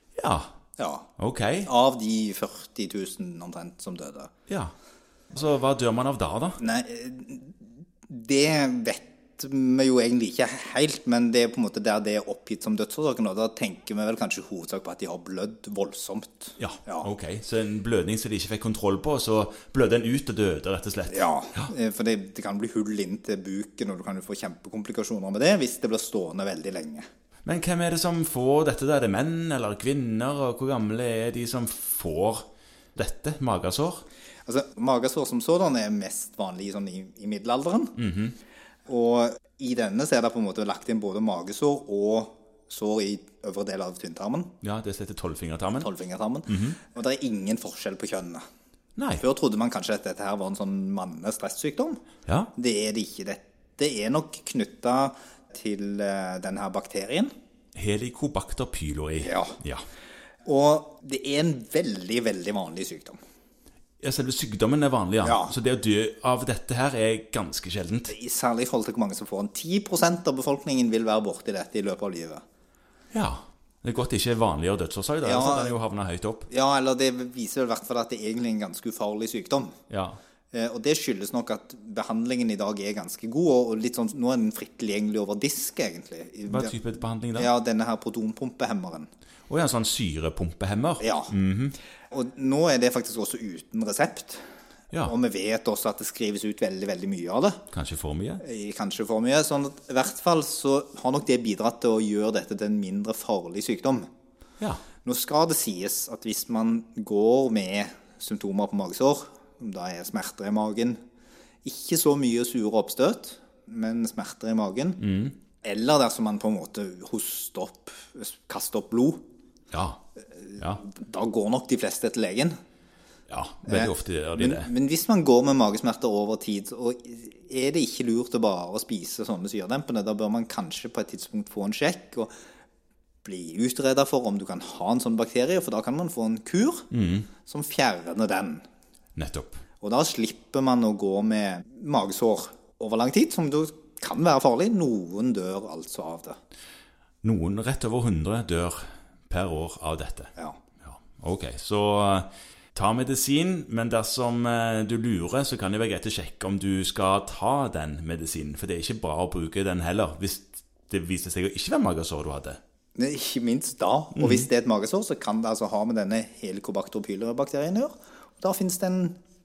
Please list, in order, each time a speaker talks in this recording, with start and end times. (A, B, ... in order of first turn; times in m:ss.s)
0:00.2-0:00.5 A
0:00.8-0:01.1 B
0:01.2-0:01.7 A
0:01.6-0:04.3 B
0:04.5-0:04.7 A
0:05.3-0:06.6 A
0:06.6-0:07.6 B
0:08.1-0:17.1 B
0:16.6-0:21.7 A
0:21.1-0:27.0 B
0:27.4-0:32.4 A
0:32.9-0:34.0 A
0:34.4-0:38.0 B
0:38.0-0:38.3 A
0:38.9-0:44.5 B
0:44.6-0:45.9 A
0:45.8-0:48.4 B
0:46.5-0:46.8 A
0:49.0-0:49.2 A
0:49.2-0:52.0 B
0:52.3-0:52.5 A
0:52.5-0:57.3 B
0:57.7-0:59.8 A
0:59.2-0:59.6 B
1:00.4-1:03.2 B
1:04.0-1:08.1 A
1:05.2-1:05.6 B
1:08.1-1:12.4 B
1:13.1-1:16.5 A
1:15.2-1:15.8 B
1:16.5-1:19.8 B
1:19.9-1:20.2 A
1:20.5-1:26.7 B
1:26.5-1:27.5 A
1:27.4-1:29.1 B
1:29.5-1:31.8 A
1:31.0-1:31.3 B
1:32.1-1:34.4 B
1:35.0-1:37.6 B
1:37.7-1:38.4 A
1:38.4-1:44.1 B
1:45.0-1:51.0 B
1:51.6-1:55.0 B
1:55.0-1:55.3 A
1:55.6-1:59.2 B
1:59.7-2:00.0 A
2:00.3-2:02.6 B
2:03.3-2:04.7 A
2:03.6-2:12.3 B
2:13.2-2:16.9 B
2:16.9-2:17.3 A
2:17.4-2:18.6 B
2:19.2-2:19.6 A
2:19.8-2:26.4 B
2:27.2-2:30.3 A
2:30.8-2:42.6 A
2:43.0-2:49.2 B
2:44.1-2:44.5 A